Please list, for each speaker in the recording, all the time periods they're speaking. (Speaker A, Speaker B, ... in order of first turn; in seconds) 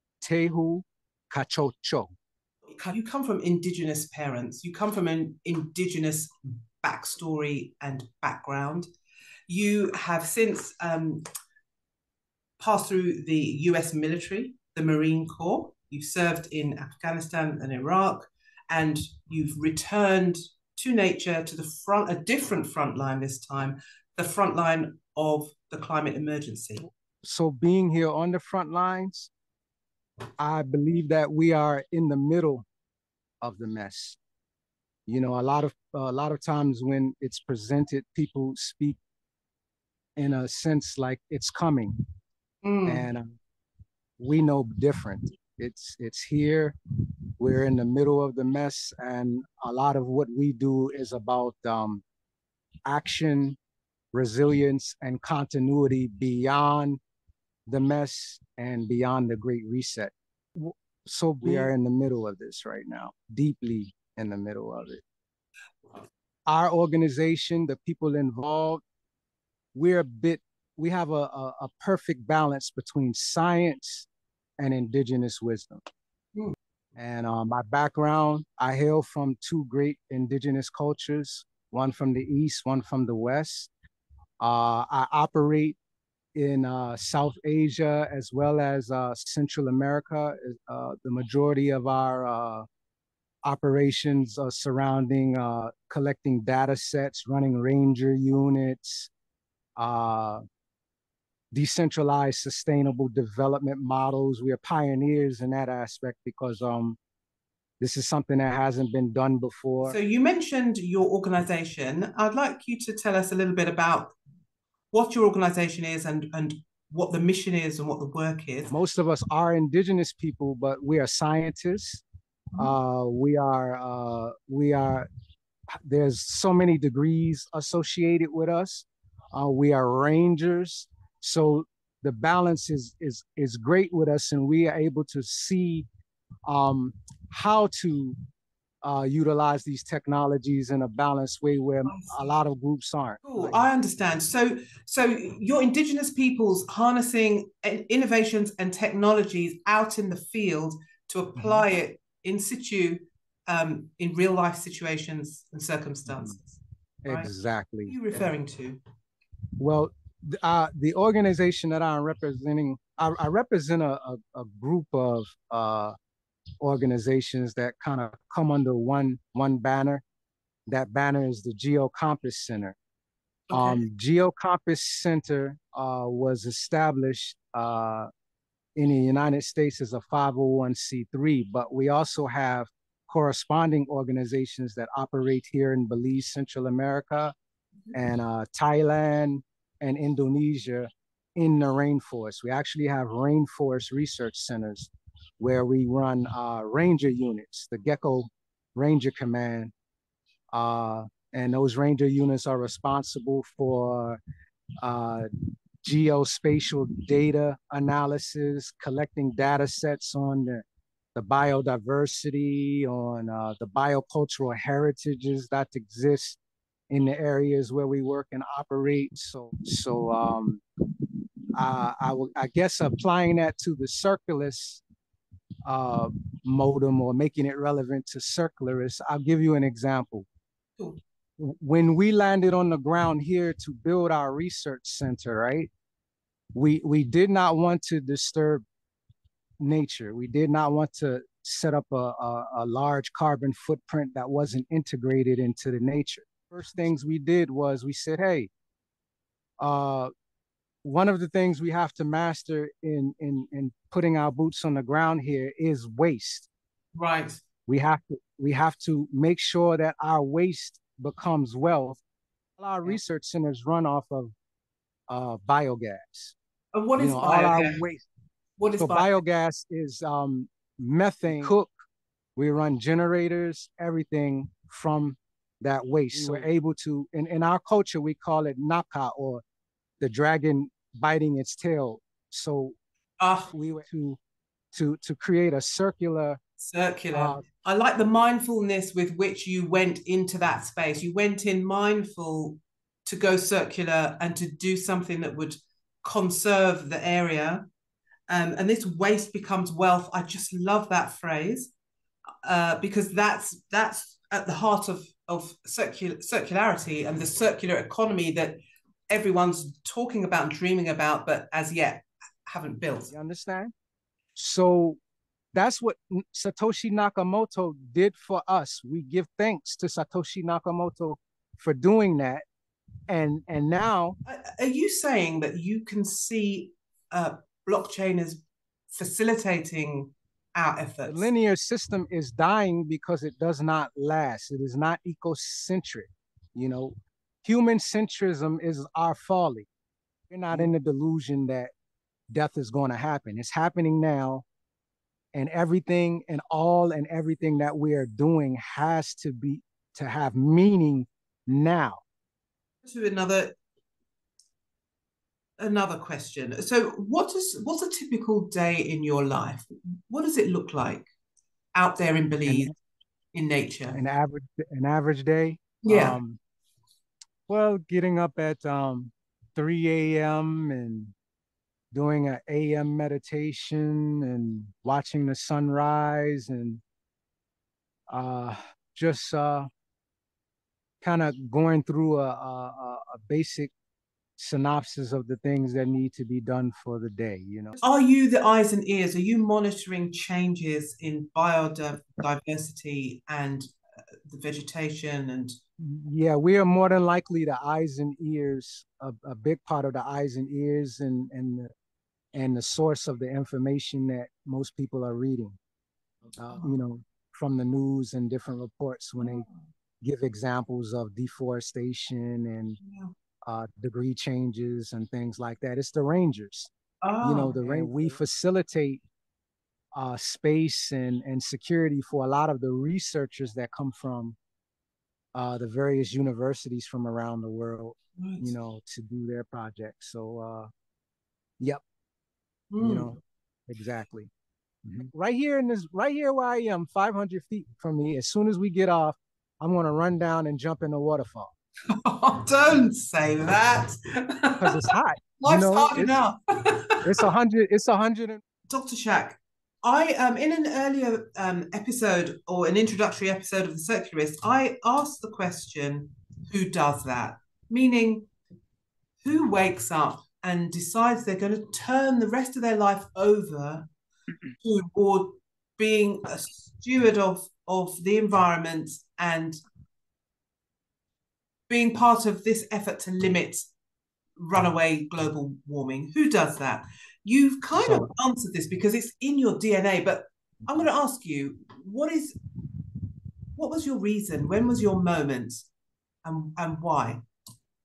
Speaker A: 0.2-2.1, 27.2-29.3, 30.4-32.6, 33.4-34.2, 35.1-39.0, 40.2-41.9, 42.9-43.4, 44.2-46.8, 47.4-52.0, 52.9-53.6, 54.1-57.0, 57.7-65.0, 66.5-68.8, 69.8-74.1, 74.6-75.8, 77.0-83.7, 84.4-85.8, 86.3-92.7, 93.5-99.1, 99.8-100.4, 101.5-107.0, 107.8-110.0, 118.7-122.0, 122.5-125.1, 125.8-135.9, 136.5-138.2, 138.8-143.6, 151.4-151.7, 157.1-158.0, 159.6-165.9, 166.6-170.0, 170.7-172.8, 173.5-178.1, 178.8-187.3, 187.9-199.7, 200.5-204.2, 204.8-205.3, 205.8-216.4, 216.9-220.6, 221.6-224.8, 225.7-230.3, 231.4-235.7, 236.6-238.6, 239.6-248.5, 249.6-250.1, 250.8-256.5, 257.7-262.0, 262.6-264.3, 265.1-266.4, 267.0-268.1, 268.8-271.7, 272.4-279.4, 280.0-282.8, 283.5-284.2, 284.7-286.4, 287.1-287.4, 313.1-313.7, 314.4-315.0, 315.5-322.4, 323.1-324.2, 331.1-339.7, 340.3-341.7, 342.3-344.5, 345.3-352.0, 362.5-362.7, 363.9-366.4, 367.5-371.1, 371.9-376.8, 378.1-379.7, 381.0-383.7, 384.4-387.8, 395.8-401.7, 402.3-405.6, 406.4-409.4, 410.0-412.8, 413.4-416.7, 417.2-419.0, 419.9-424.4, 425.4-430.7, 432.8-434.3, 434.9-441.5, 444.6-446.2, 447.0-448.4, 477.8-478.1
Speaker B: 2.7-8.9, 9.5-11.2, 12.6-26.9, 42.6-43.1, 61.4-61.7, 109.8-114.2, 114.9-118.8, 141.8-142.4, 143.2-157.3, 157.9-158.8, 173.5-173.8, 256.9-257.4, 266.7-267.8, 268.6-269.2, 283.2-283.5, 286.6-297.7, 298.3-301.7, 302.4-313.1, 324.2-331.3, 352.8-353.6, 355.6-361.1, 361.7-362.7, 363.3-364.0, 365.8-366.2, 387.8-393.7, 394.2-395.6, 409.2-409.6, 412.8-413.1, 417.0-418.0, 428.2-428.5, 432.7-433.1, 441.9-447.3, 448.7-458.3, 459.2-463.9, 464.6-469.6, 471.7-473.7, 474.4-482.4, 483.6-485.7, 486.2-487.2